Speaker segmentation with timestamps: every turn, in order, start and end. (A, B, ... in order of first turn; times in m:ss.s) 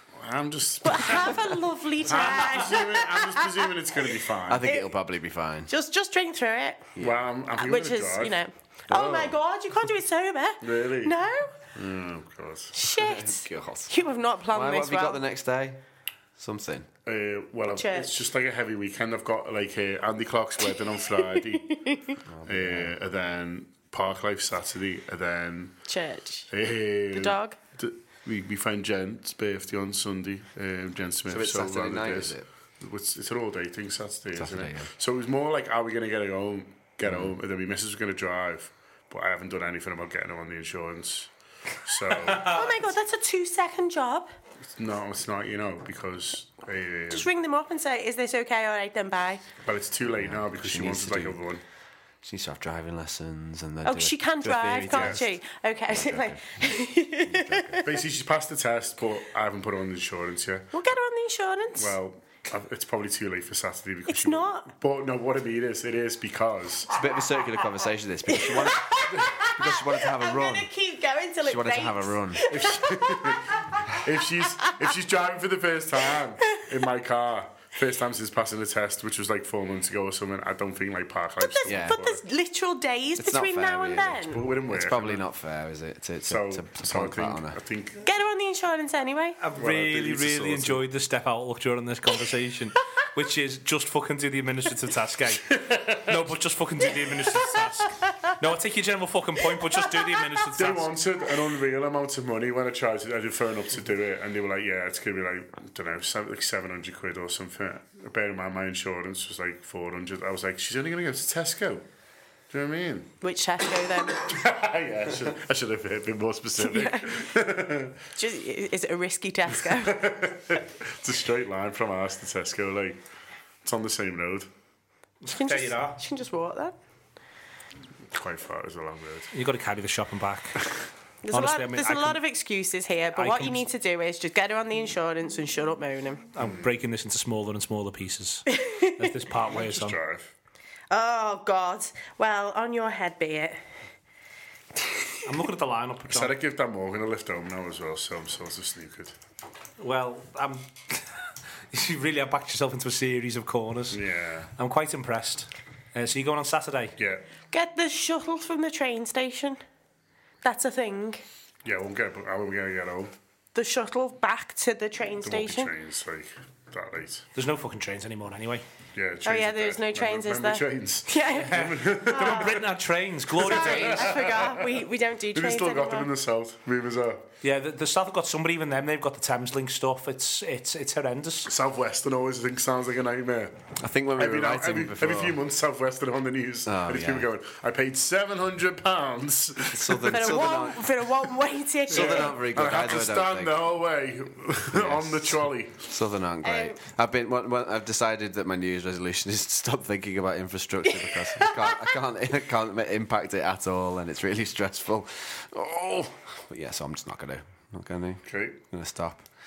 0:00.2-0:04.7 A
0:00.8-0:03.6 B
0:04.5-0:05.7 C
0:04.6-0:04.9 B
0:05.7-0:06.9 B
0:07.0-0:08.4 A
0:07.6-0:11.5 B
0:08.9-0:09.3 A
0:10.6-0:11.1 A
0:11.8-0:12.7 A
0:12.7-0:15.2 B
0:12.9-0:13.9 C
0:14.5-0:15.8 C
0:16.4-0:16.9 C
0:17.1-0:21.8 A
0:17.7-0:18.1 B
0:21.3-0:22.2 B
0:22.3-0:23.0 C
0:22.4-0:25.8 A
0:25.9-0:26.5 B
0:26.5-0:41.3 A
0:27.1-0:27.6 B
0:31.3-0:32.4 C
0:34.4-0:34.9 C
0:37.0-0:37.3 C
0:41.8-0:42.6 A
0:42.4-0:44.3 B
0:44.8-0:47.3 A
0:47.1-0:49.4 B
0:49.6-0:51.6 A
0:50.1-0:51.4 C
0:52.2-0:55.3 C
0:53.8-0:58.0 B
0:54.9-0:55.2 A
0:55.9-0:56.7 C
0:57.2-0:57.8 C
0:57.8-1:00.7 A
1:00.7-1:02.0 B
1:01.8-1:06.9 A
1:04.1-1:04.7 B
1:06.9-1:10.7 C
1:08.3-1:13.8 B
1:11.4-1:12.5 C
1:12.5-1:22.2 A
1:21.4-1:24.4 B
1:21.6-1:22.0 C
1:23.2-1:27.6 C
1:24.3-1:25.2 A
1:26.2-1:28.0 A
1:28.0-1:29.4 B
1:29.4-1:40.9 D
1:29.6-1:30.8 A
1:35.5-1:36.1 A
1:40.6-1:51.8 A
1:52.5-1:53.2 A
1:53.2-1:54.3 B
1:54.2-1:58.0 A
1:56.6-1:57.1 B
1:58.2-2:00.1 B
1:59.8-2:03.0 A
2:03.6-2:04.5 A
2:05.2-2:06.0 D
2:05.3-2:06.8 B
2:08.1-2:09.3 A
2:09.3-2:10.6 D
2:11.2-2:16.3 B
2:11.3-2:12.2 D
2:13.2-2:13.6 D
2:16.4-2:20.0 D
2:18.5-2:19.0 B
2:19.5-2:20.3 A
2:20.9-2:23.6 B
2:25.2-2:26.4 D
2:26.1-2:29.2 A
2:29.8-2:31.1 D
2:31.7-2:34.0 D
2:33.9-2:34.5 A
2:34.6-2:36.9 D
2:37.0-2:37.2 A
2:37.5-2:39.6 B
2:40.4-2:41.2 B
2:41.6-2:43.1 A
2:43.6-2:45.7 B
2:45.2-2:47.3 A
2:47.4-2:48.6 D
2:49.0-2:52.7 A
2:49.2-2:52.6 B
2:51.4-2:54.2 D
2:53.3-2:54.8 A
2:53.4-2:56.1 B
2:55.3-2:57.2 A
2:57.4-3:01.5 D
3:01.5-3:03.6 A
3:03.8-3:05.4 C
3:04.2-3:10.5 A
3:06.7-3:07.3 C
3:09.7-3:10.8 C
3:10.1-3:12.3 B
3:11.9-3:13.7 C
3:11.9-3:15.8 A
3:14.7-3:29.2 C
3:16.4-3:16.8 B
3:21.2-3:21.8 B
3:28.3-3:28.6 A